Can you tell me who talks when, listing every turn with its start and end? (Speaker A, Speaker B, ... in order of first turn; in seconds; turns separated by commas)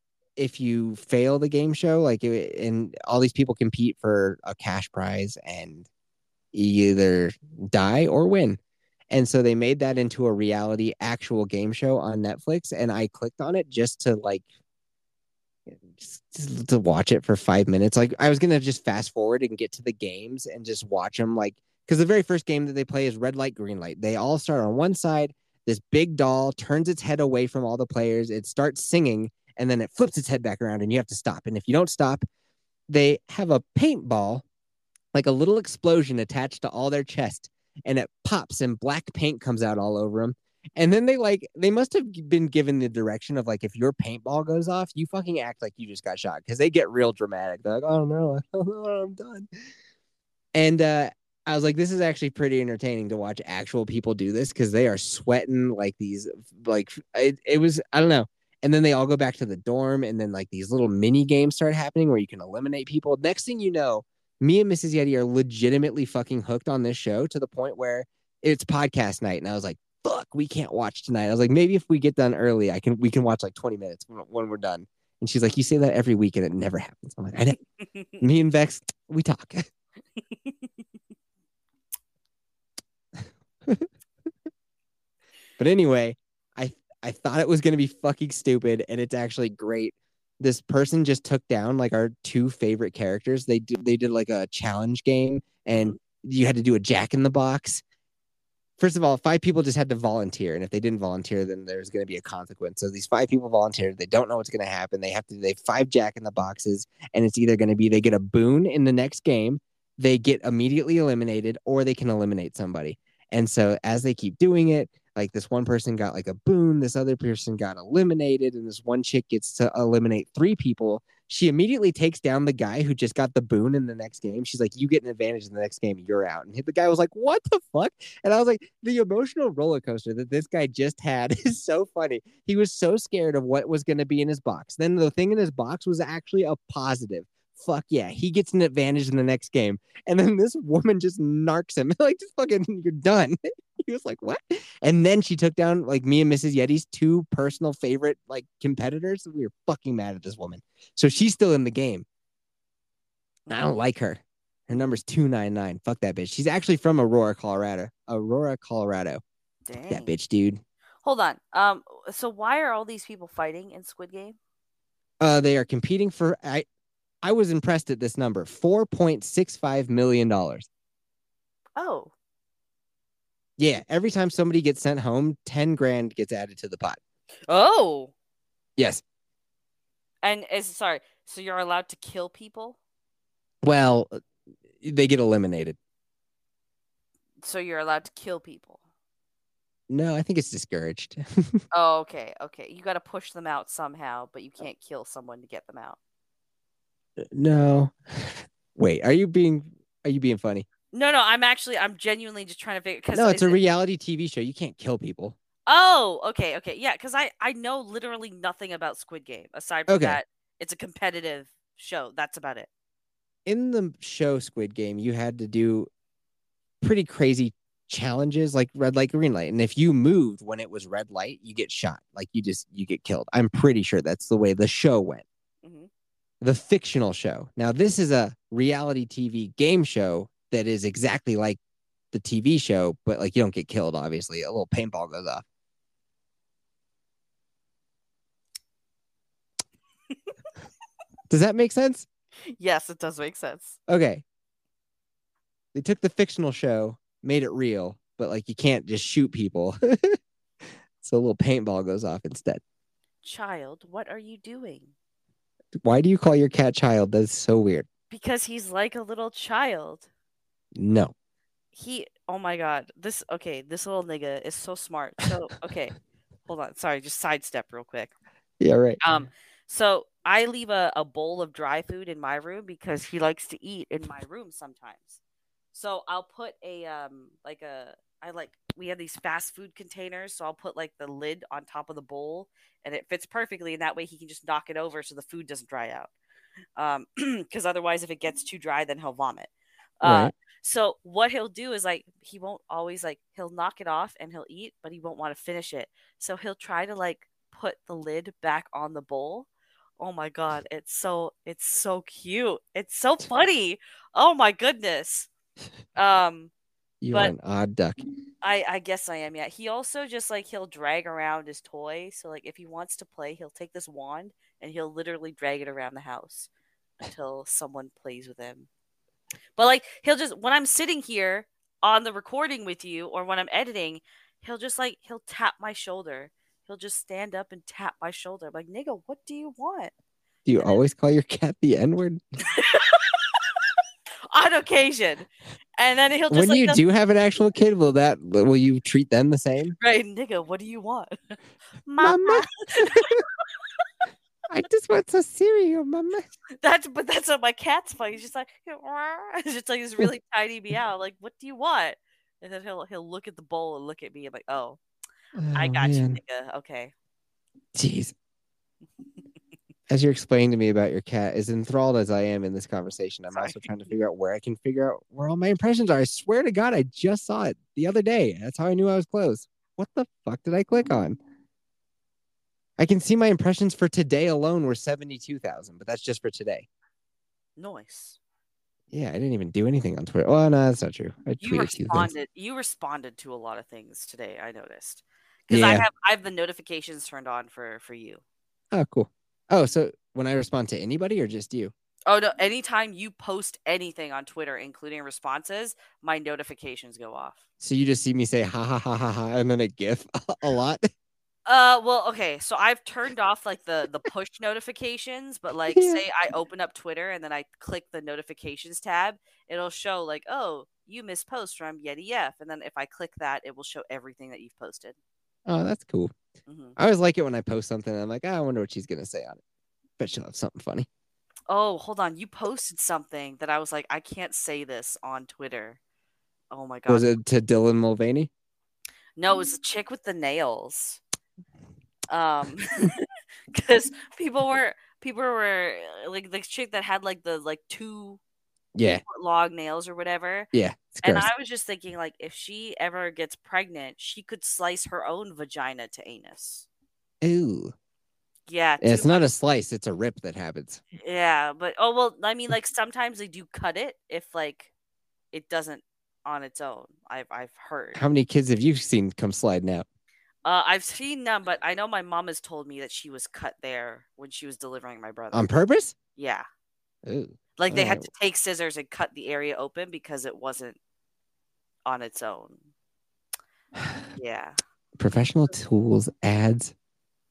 Speaker A: 0.4-5.9, Speaker A: 6.5-8.6, Speaker A: 9.1-14.4, Speaker A: 15.8-32.2, Speaker A: 32.9-34.4, Speaker A: 35.1-49.5, Speaker A: 50.5-77.6, Speaker A: 78.2-79.7, Speaker A: 83.2-83.9, Speaker A: 85.6-97.8, Speaker A: 98.8-152.0, Speaker A: 153.5-159.2, Speaker B: 159.7-160.1, Speaker A: 159.9-160.6, Speaker B: 161.0-164.3, Speaker A: 165.2-166.7, Speaker A: 167.2-170.7, Speaker B: 171.8-172.1, Speaker A: 173.6-177.0, Speaker B: 177.5-178.1, Speaker A: 178.8-179.0, Speaker B: 180.2-182.8, Speaker A: 183.6-184.2, Speaker A: 184.8-185.8, Speaker B: 187.4-188.8, Speaker A: 189.9-191.6, Speaker B: 191.7-196.0, Speaker A: 197.2-200.7, Speaker B: 200.9-203.6, Speaker A: 203.1-205.3, Speaker B: 205.7-212.7, Speaker A: 209.9-210.2, Speaker A: 213.4-215.9, Speaker A: 216.8-225.2, Speaker B: 225.6-225.9, Speaker A: 226.4-231.6, Speaker A: 232.1-235.4, Speaker A: 241.3-242.1, Speaker B: 242.5-243.8, Speaker A: 243.9-244.2, Speaker A: 245.7-250.2, Speaker A: 251.0-252.6, Speaker B: 253.2-254.9, Speaker A: 255.8-257.9, Speaker B: 258.1-260.1, Speaker A: 260.7-261.1, Speaker B: 261.7-265.9, Speaker B: 266.4-268.1, Speaker A: 268.6-269.0, Speaker B: 269.0-275.2, Speaker B: 275.7-286.1, Speaker B: 286.8-299.5, Speaker A: 290.0-290.3, Speaker B: 300.0-305.3, Speaker B: 305.9-306.5, Speaker A: 307.0-308.0, Speaker B: 308.4-316.5, Speaker B: 317.0-318.7, Speaker B: 319.6-329.9, Speaker A: 330.4-332.2, Speaker B: 332.6-333.2, Speaker B: 334.3-336.8, Speaker A: 336.3-339.8, Speaker B: 339.8-343.2, Speaker A: 342.0-343.2, Speaker A: 344.5-346.2, Speaker B: 346.6-354.8, Speaker A: 355.3-356.2, Speaker B: 355.5-356.9, Speaker A: 357.7-358.1, Speaker A: 359.9-371.2, Speaker B: 363.3-363.6, Speaker A: 372.8-376.7, Speaker B: 377.6-378.2, Speaker A: 378.9-382.1, Speaker B: 381.4-388.2, Speaker A: 385.5-385.9, Speaker A: 388.7-391.7, Speaker B: 392.1-397.4, Speaker A: 397.6-400.9, Speaker B: 401.4-414.9, Speaker A: 405.7-406.0, Speaker A: 415.4-416.1, Speaker B: 416.5-416.8, Speaker A: 416.8-419.4, Speaker A: 420.0-420.9, Speaker B: 421.5-425.8, Speaker B: 426.5-427.1, Speaker A: 426.9-428.3, Speaker B: 429.2-431.0, Speaker B: 432.1-438.2, Speaker A: 438.7-439.0, Speaker B: 439.1-440.5, Speaker A: 440.5-441.3, Speaker B: 441.0-446.6, Speaker A: 447.2-447.7, Speaker B: 448.5-449.2, Speaker A: 448.8-450.8, Speaker B: 451.0-454.7, Speaker B: 455.3-458.0, Speaker A: 457.9-459.8, Speaker B: 460.4-465.5, Speaker A: 465.3-465.9, Speaker B: 466.1-466.5, Speaker A: 467.0-468.0, Speaker B: 467.6-470.8, Speaker B: 471.8-472.6, Speaker B: 474.1-474.6, Speaker A: 475.0-476.7